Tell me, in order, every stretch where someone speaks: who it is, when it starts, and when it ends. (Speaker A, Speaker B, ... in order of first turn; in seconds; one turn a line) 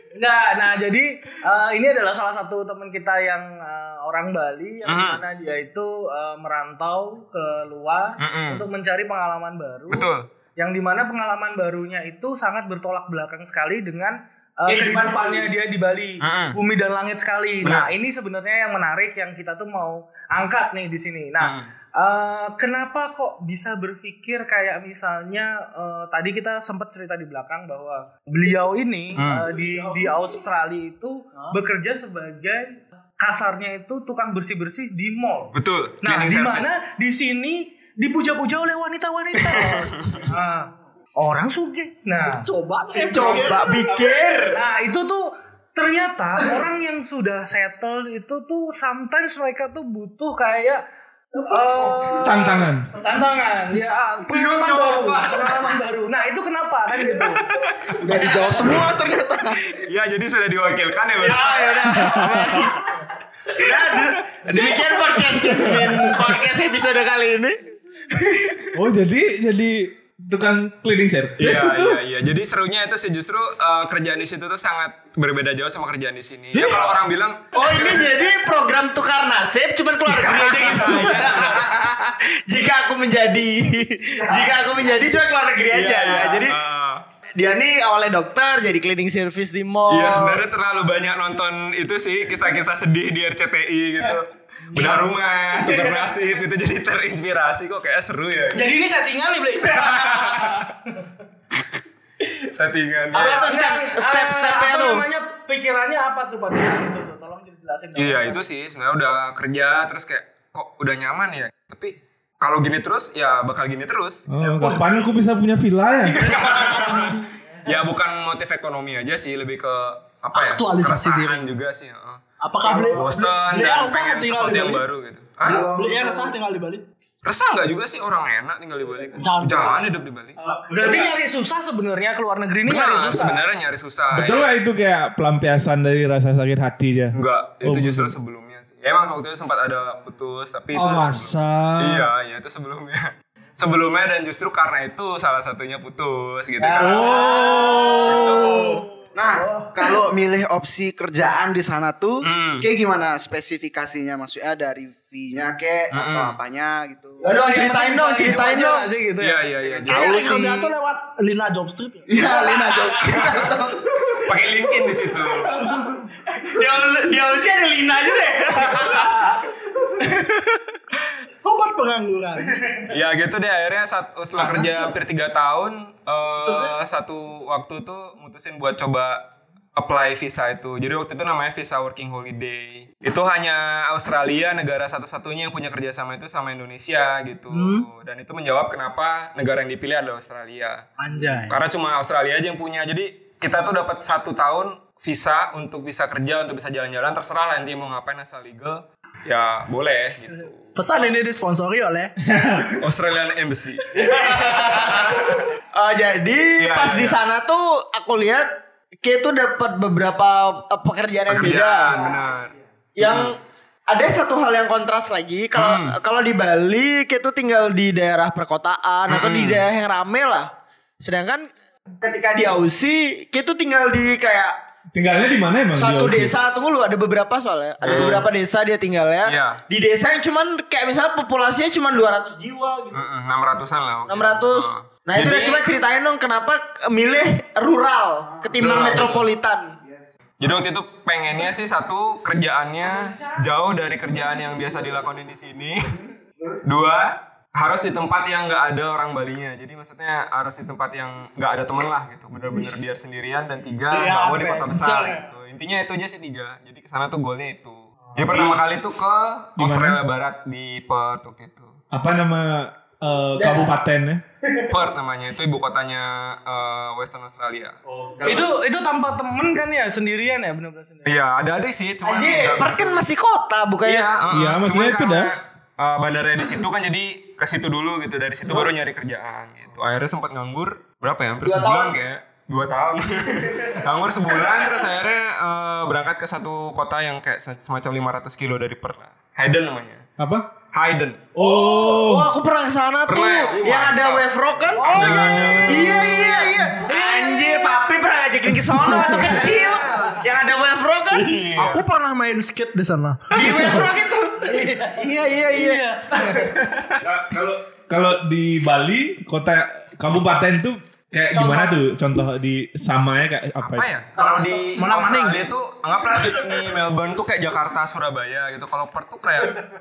Speaker A: 0.1-42.5
Speaker B: 4.8-5.2
Speaker B: 8.2-8.6
Speaker B: 9.9-10.3
Speaker C: 14.7-15.5
Speaker B: 16.2-16.6
Speaker B: 17.6-17.9
Speaker B: 21.4-21.7
Speaker B: 29.1-29.5
Speaker D: 29.5-30.3
Speaker B: 35.5-36.7
Speaker B: 39.4-40.2
Speaker D: 42.2-44.3
Speaker C: 42.9-44.6
Speaker A: 44.5-50.8
Speaker D: 51.3-52.4
Speaker A: 51.5-57.5
Speaker E: 52.2-52.9
Speaker C: 54.3-55.5
Speaker F: 58.0-59.5
Speaker D: 58.0-59.5
Speaker B: 59.7-62.1
Speaker C: 61.2-62.9
Speaker E: 61.9-62.6
Speaker C: 63.5-67.5
Speaker C: 68.1-68.7
Speaker E: 68.7-72.0
Speaker B: 71.4-78.1
Speaker C: 76.5-76.9
Speaker C: 77.5-86.5
Speaker B: 80.1-81.6
Speaker B: 85.7-87.0
Speaker C: 87.3-90.4
Speaker B: 89.9-98.7
Speaker A: 98.5-100.7
Speaker B: 99.6-100.7
Speaker B: 102.2-103.5
Speaker C: 103.1-105.0
Speaker A: 103.2-108.4
Speaker B: 108.0-114.3
Speaker E: 114.3-116.3
Speaker D: 114.4-115.0
Speaker B: 116.2-122.2
Speaker D: 116.3-117.2
Speaker D: 120.3-121.5
Speaker D: 122.4-124.8
Speaker F: 122.6-123.3
Speaker B: 122.8-125.7
Speaker F: 125.4-126.3
Speaker D: 125.5-126.8
Speaker B: 127.2-130.4
Speaker D: 129.1-129.8
Speaker D: 130.4-131.1
Speaker A: 130.7-133.4
Speaker B: 132.7-134.5
Speaker E: 134.1-138.1
Speaker B: 137.1-148.8
Speaker E: 140.8-141.9
Speaker A: 146.6-147.5
Speaker E: 146.8-148.4
Speaker D: 148.3-148.7
Speaker F: 149.1-157.2
Speaker D: 149.3-149.9
Speaker B: 152.2-152.7
Speaker B: 155.9-156.4
Speaker A: 157.2-159.4
Speaker C: 157.2-158.9
Speaker B: 159.2-160.7
Speaker D: 159.8-162.3
Speaker F: 162.1-164.1
Speaker B: 164.2-165.6
Speaker C: 166.4-169.2
Speaker D: 168.9-169.6
Speaker C: 170.0-170.6
Speaker D: 171.4-172.9
Speaker B: 172.9-179.2
Speaker D: 174.4-174.9
Speaker D: 176.4-176.7
Speaker B: 179.8-190.8
Speaker D: 187.5-187.9
Speaker D: 191.0-191.6
Speaker B: 191.5-200.7
Speaker D: 200.7-202.7
Speaker B: 202.8-205.3
Speaker C: 203.9-208.5
Speaker B: 206.6-207.2
Speaker C: 209.0-212.1
Speaker B: 211.3-213.3
Speaker C: 213.0-213.4
Speaker C: 213.9-224.6
Speaker B: 215.5-216.0
Speaker B: 219.1-219.6
Speaker E: 224.9-226.3
Speaker C: 225.7-233.0
Speaker B: 227.8-228.3
Speaker B: 229.2-229.6
Speaker B: 232.9-235.7
Speaker C: 234.1-239.8
Speaker B: 238.6-239.3
Speaker F: 239.8-240.1
Speaker B: 240.4-246.0
Speaker B: 246.6-261.8
Speaker D: 253.9-255.3
Speaker E: 259.6-260.0
Speaker E: 261.9-264.2
Speaker D: 263.4-263.7
Speaker B: 264.7-267.8
Speaker E: 267.9-268.4
Speaker A: 268.2-271.2
Speaker B: 271.0-273.0
Speaker C: 272.0-274.1
Speaker B: 273.8-290.1
Speaker E: 274.3-275.3
Speaker C: 281.4-281.9
Speaker E: 290.2-290.5
Speaker B: 290.7-291.3
Speaker E: 291.3-292.3
Speaker C: 291.4-301.4
Speaker B: 293.1-294.2
Speaker A: 294.8-295.6
Speaker B: 294.8-296.3
Speaker E: 295.0-295.9
Speaker A: 296.8-297.8
Speaker B: 301.1-301.8
Speaker D: 301.5-303.9
Speaker C: 303.3-306.6
Speaker A: 304.4-306.5
Speaker B: 307.0-307.6
Speaker E: 307.9-313.9
Speaker A: 311.3-311.7
Speaker B: 313.6-319.6
Speaker D: 314.7-315.4